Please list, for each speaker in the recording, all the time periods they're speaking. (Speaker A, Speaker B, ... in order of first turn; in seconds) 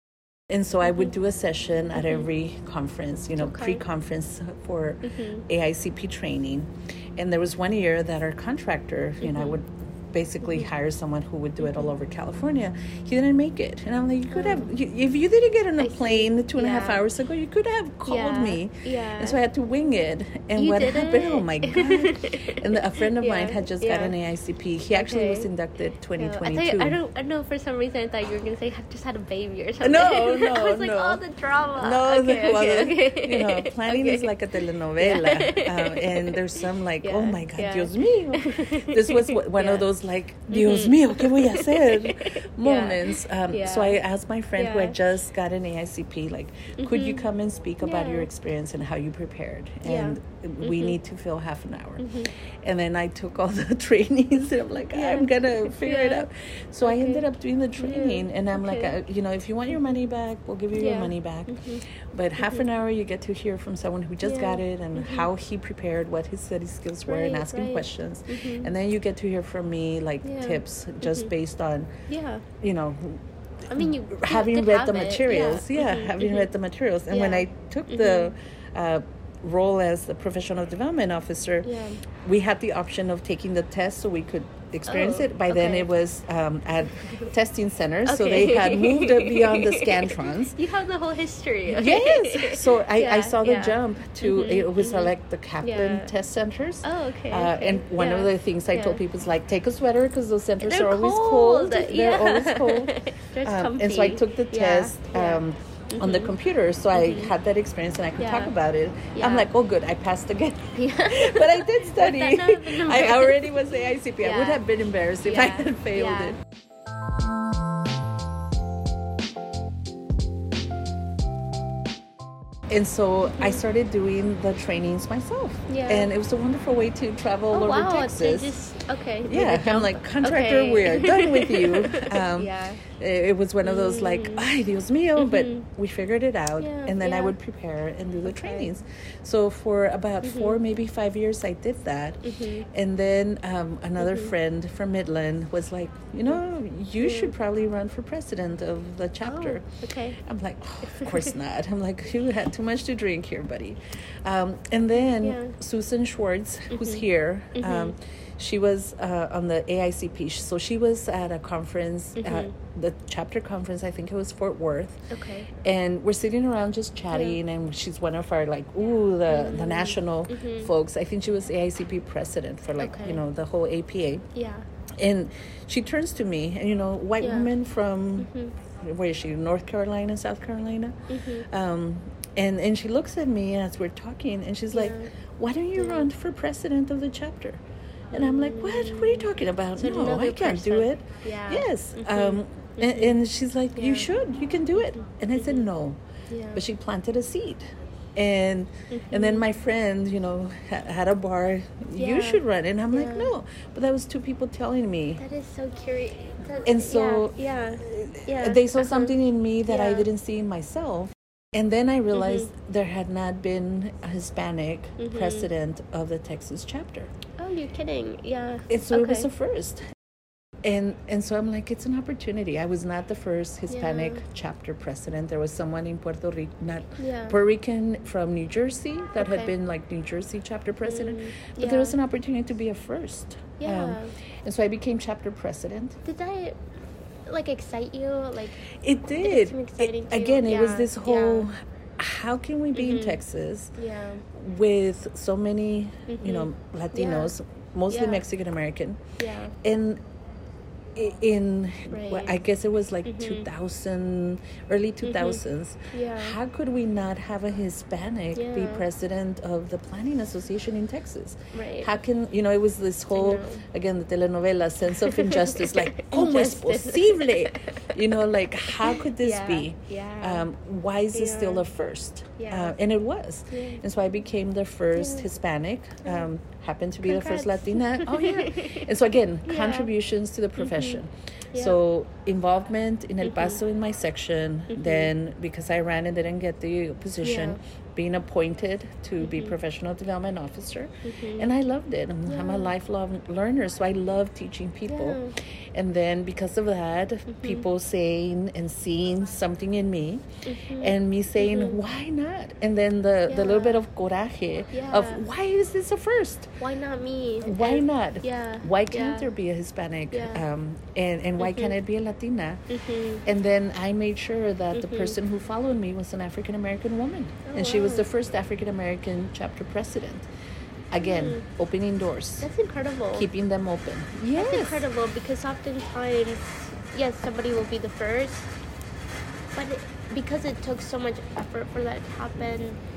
Speaker A: 0.5-27.0, 29.8-31.2, 31.8-71.9, 72.6-81.7, 82.2-90.6, 91.7-116.4, 122.7-128.7, 129.3-149.7, 150.2-165.1, 165.6-174.3, 175.0-187.6, 188.1-196.0, 196.5-205.2, 206.7-217.1, 218.7-219.9, 220.6-236.0, 238.7-243.8, 244.3-249.0, 249.6-250.0, 250.9-300.2, 300.8-306.6, 307.4-312.6, 313.2-320.3, 320.9-322.5, 323.1-324.9
Speaker B: 2.0-2.3, 3.4-3.8, 5.0-5.5, 9.2-9.6, 11.6-11.9, 14.3-14.7, 15.8-17.0, 18.1-19.4, 20.6-24.1, 24.9-25.5, 26.2-39.9, 40.5-44.0, 44.6-45.0, 46.8-47.3, 47.8-48.3, 49.9-51.0, 52.0-52.3, 54.9-56.3, 56.9-57.3, 57.8-58.9, 60.8-61.8, 62.4-62.6, 64.2-65.3, 67.1-68.7, 70.2-71.3, 72.1-72.5, 73.7-76.5, 77.1-78.3, 81.6-82.0, 84.9-85.9, 87.0-87.3, 88.0-96.1, 96.8-99.0, 100.6-106.3, 107.0-107.3, 108.2-108.5, 109.2-109.5, 110.8-113.6, 114.2-114.6, 115.2-116.4, 123.3-123.6, 125.7-126.1, 127.5-132.8, 133.6-134.5, 135.2-135.7, 136.6-137.3, 138.2-138.7, 140.2-140.6, 142.2-142.7, 144.0-144.3, 147.0-147.3, 149.2-150.2, 150.8-151.3, 155.2-155.6, 156.7-157.9, 162.2-162.5, 165.1-165.5, 169.3-170.7, 172.8-173.2, 174.3-174.7, 177.2-177.5, 178.2-178.5, 181.1-181.5, 184.7-185.1, 185.8-186.1, 188.1-193.2, 193.8-194.1, 195.4-195.7, 196.3-196.6, 198.9-199.4, 202.0-203.3, 205.2-209.2, 209.7-210.1, 212.1-212.5, 215.0-215.5, 217.4-219.3, 223.7-224.2, 227.0-227.4, 229.2-229.5, 230.8-232.0, 233.6-234.2, 236.1-236.6, 237.3-238.6, 239.2-241.5, 242.7-243.2, 243.8-244.2, 246.1-247.3, 247.9-248.2, 249.2-249.5, 251.9-252.4, 253.1-253.5, 255.0-255.4, 255.9-256.4, 258.4-258.9, 261.5-261.9, 263.1-263.6, 265.0-267.9, 268.7-270.5, 271.1-271.6, 272.4-272.8, 273.5-273.8, 274.9-275.3, 277.0-278.9, 279.5-279.9, 280.6-281.0, 281.5-281.8, 283.2-283.6, 284.7-285.1, 287.2-287.6, 289.2-289.6, 291.1-291.5, 292.3-292.7, 294.9-295.3, 297.3-297.6, 300.5-301.8, 303.3-303.8, 304.7-305.3, 306.6-309.3, 310.1-310.4, 311.4-311.7, 312.7-313.2, 314.7-315.2, 317.4-318.1, 321.0-321.4, 322.4-323.3, 324.3-328.5, 329.6-332.8